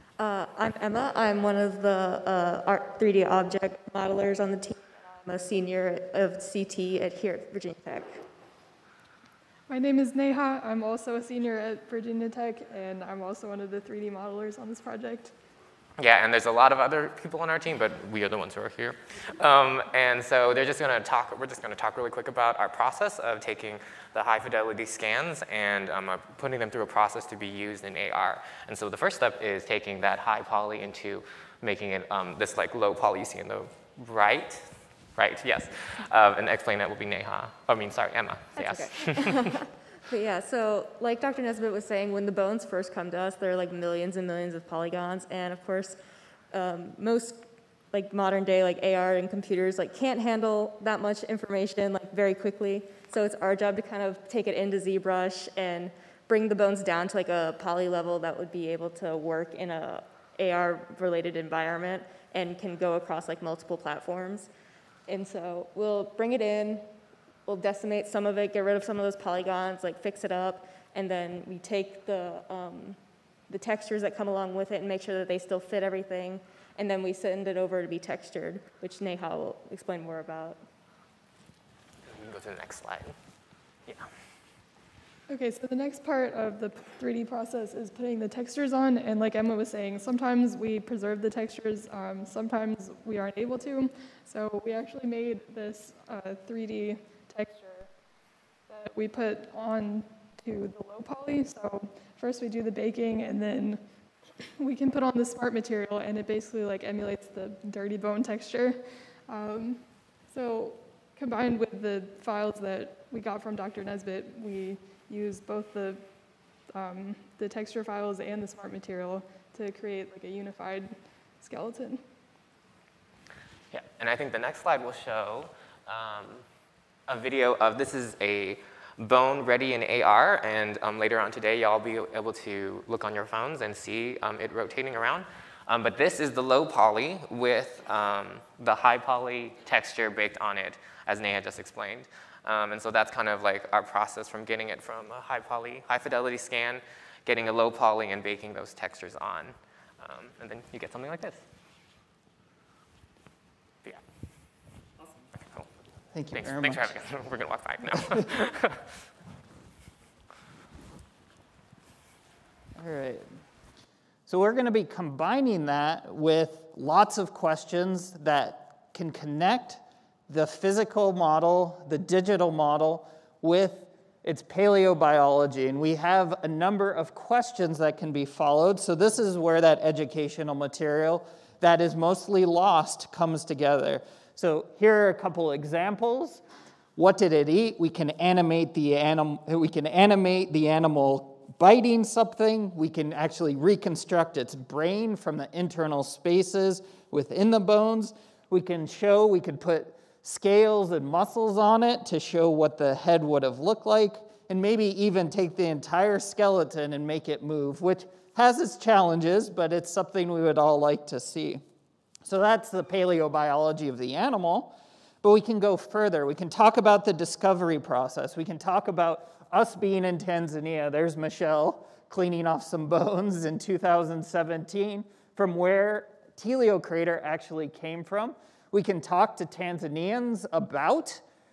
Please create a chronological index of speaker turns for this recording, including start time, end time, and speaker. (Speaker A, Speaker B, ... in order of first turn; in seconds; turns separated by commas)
Speaker A: 0.2-8.2, Speaker B: 9.7-15.3, Speaker C: 16.0-39.4, Speaker A: 38.5-46.0, Speaker A: 46.5-64.5, Speaker A: 65.1-66.8, Speaker A: 67.5-73.0, Speaker A: 73.5-80.6, Speaker C: 82.0-83.2, Speaker B: 85.3-97.9, Speaker B: 98.7-103.8, Speaker B: 104.6-116.0, Speaker B: 116.7-122.0, Speaker C: 123.7-126.4, Speaker C: 127.1-151.4, Speaker C: 155.3-155.7, Speaker D: 156.1-156.9, Speaker C: 156.3-158.9, Speaker D: 162.8-163.2, Speaker D: 164.3-186.4, Speaker D: 186.9-211.6, Speaker D: 212.2-231.2